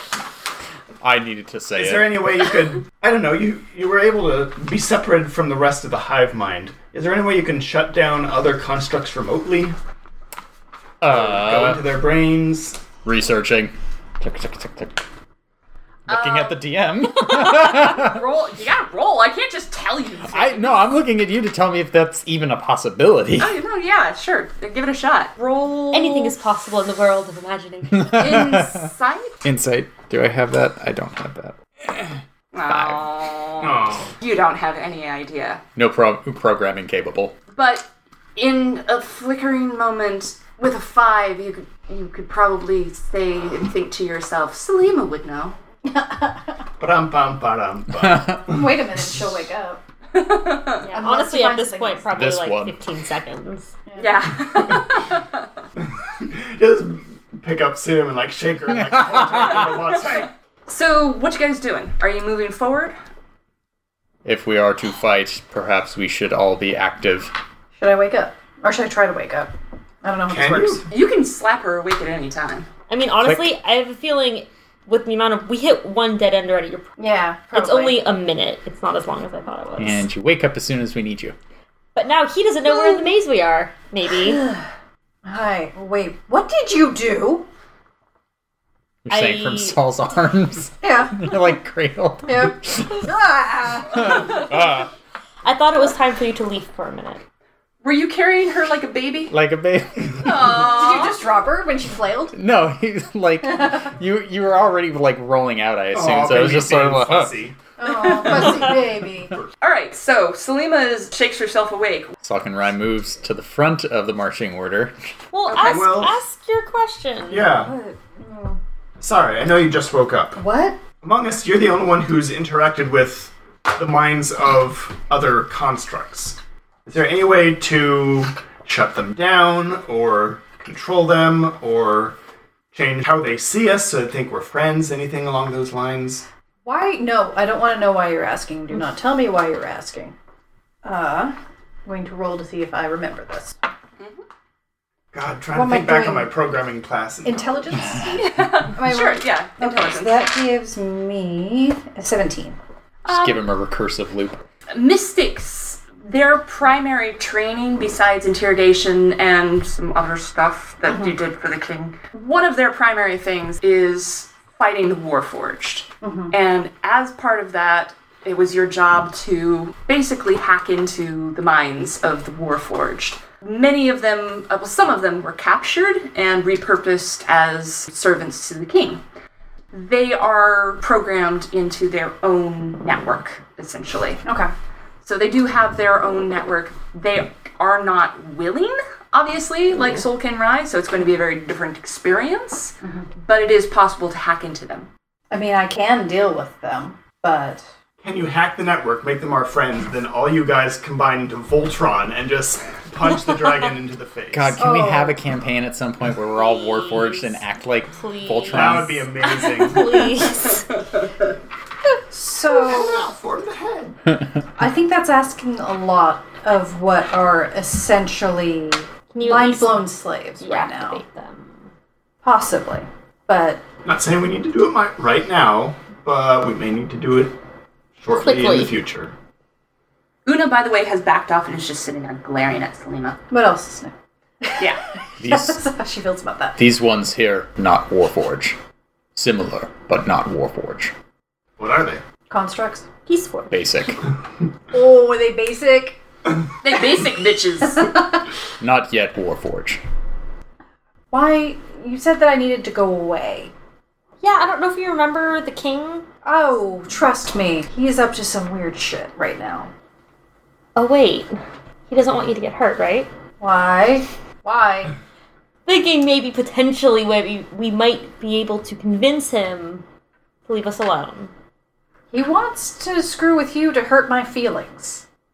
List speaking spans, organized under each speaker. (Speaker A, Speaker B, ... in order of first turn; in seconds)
Speaker A: 1.0-2.3, 11.0-11.8, 13.0-15.0, 16.1-18.2, 20.3-23.6, 27.9-28.9, 29.4-32.1, 32.7-33.1, 35.8-37.4, 48.0-48.5, 52.1-52.8, 58.9-59.5, 64.2-67.3, 73.2-73.5, 79.8-81.4, 89.0-93.0, 93.9-94.9, 99.3-100.6, 102.3-107.3, 112.2-115.0, 153.1-154.4, 204.3-209.1, 235.2-235.6, 236.6-238.6, 239.2-240.9, 243.5-244.0, 248.6-249.8
Speaker B: 1.8-9.8, 11.0-12.8, 33.6-34.1, 46.8-49.3, 55.8-60.3, 70.3-70.9, 105.9-107.6, 115.6-116.2, 117.3-117.7, 119.0-120.4, 121.0-132.2, 132.7-136.3, 145.1-147.9, 198.0-204.6, 208.5-210.2, 212.5-214.0, 223.8-227.3, 228.0-229.1, 241.6-242.0
Speaker C: 16.1-20.9, 23.4-26.4, 28.1-29.4, 32.5-35.6, 37.5-45.6, 50.1-50.9, 54.0-55.5, 60.1-63.0, 70.9-72.7, 97.8-99.3, 100.2-101.2, 107.8-108.8, 109.6-112.1, 115.5-116.0, 144.0-144.2, 148.2-150.3, 153.1-153.4, 154.7-179.0, 179.7-184.2, 185.0-194.9, 230.3-233.2, 234.6-234.8, 246.6-248.0
Speaker D: 25.9-28.2, 50.8-53.7, 72.9-76.9, 77.5-80.1, 82.0-84.4, 89.1-89.8, 95.4-97.2, 115.3-117.5, 206.3-207.4, 207.9-210.7, 219.1-221.7, 228.1-228.8, 243.1-243.9, 254.2-256.1, 260.8-263.1, 265.7-269.8, 270.5-271.3
Speaker E: 45.9-46.6, 48.5-49.8, 50.9-52.2, 53.9-54.3, 67.8-69.5, 70.0-70.8, 77.0-78.0, 82.7-83.0, 84.3-84.6, 85.2-87.5, 90.8-91.3, 92.2-94.5, 100.6-102.4, 107.8-109.4, 117.5-118.6, 120.4-120.8, 136.7-140.2, 140.8-143.6, 145.5-146.3, 147.2-152.6, 160.9-161.2, 166.0-166.3, 184.2-184.5, 195.3-197.6, 204.6-205.2, 212.1-213.1, 214.6-221.0, 222.2-223.6, 233.3-234.7, 235.2-236.6, 242.3-242.9, 244.7-246.0, 247.7-248.2, 251.1-253.5, 256.2-259.7, 263.4-264.9, 272.1-275.0